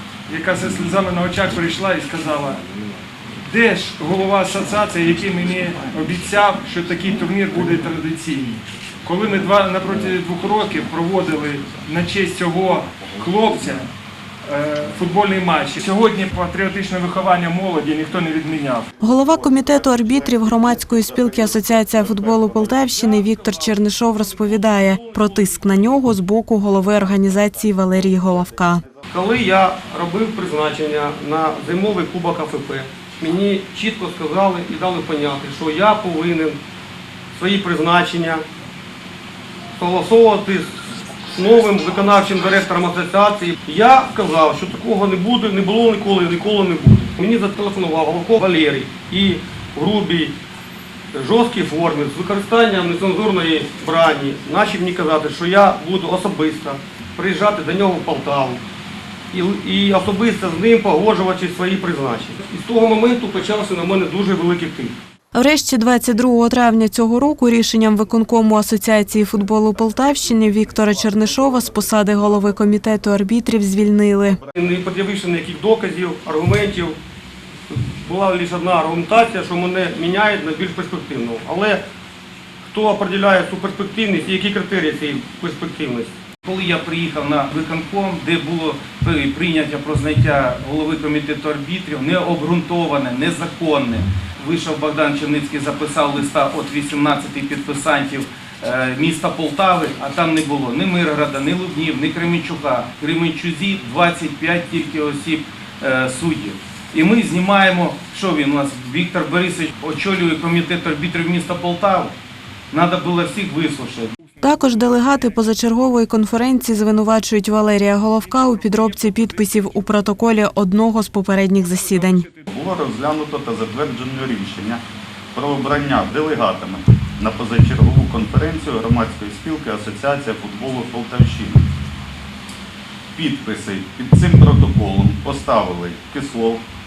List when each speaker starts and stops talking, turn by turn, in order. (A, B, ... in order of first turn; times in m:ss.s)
0:00.3-0:02.6 A
0:03.4-0:13.9 A
0:14.4-0:18.9 A
0:19.0-0:28.8 B
0:24.3-0:25.8 C
0:29.1-0:36.6 C
0:37.3-0:38.4 C
0:39.8-0:50.3 C
0:51.1-0:58.6 C
0:59.3-1:04.9 C
1:05.3-1:14.4 B
1:14.5-1:17.0 C
1:17.7-1:21.8 C
1:22.6-1:26.1 C
1:26.4-1:52.1 D
1:52.7-1:54.1 D
1:54.3-1:55.4 A
1:54.4-2:02.2 B
1:58.2-2:00.2 A
2:01.6-2:02.5 A
2:02.5-2:04.8 E
2:05.3-2:11.7 E
2:13.1-2:16.6 E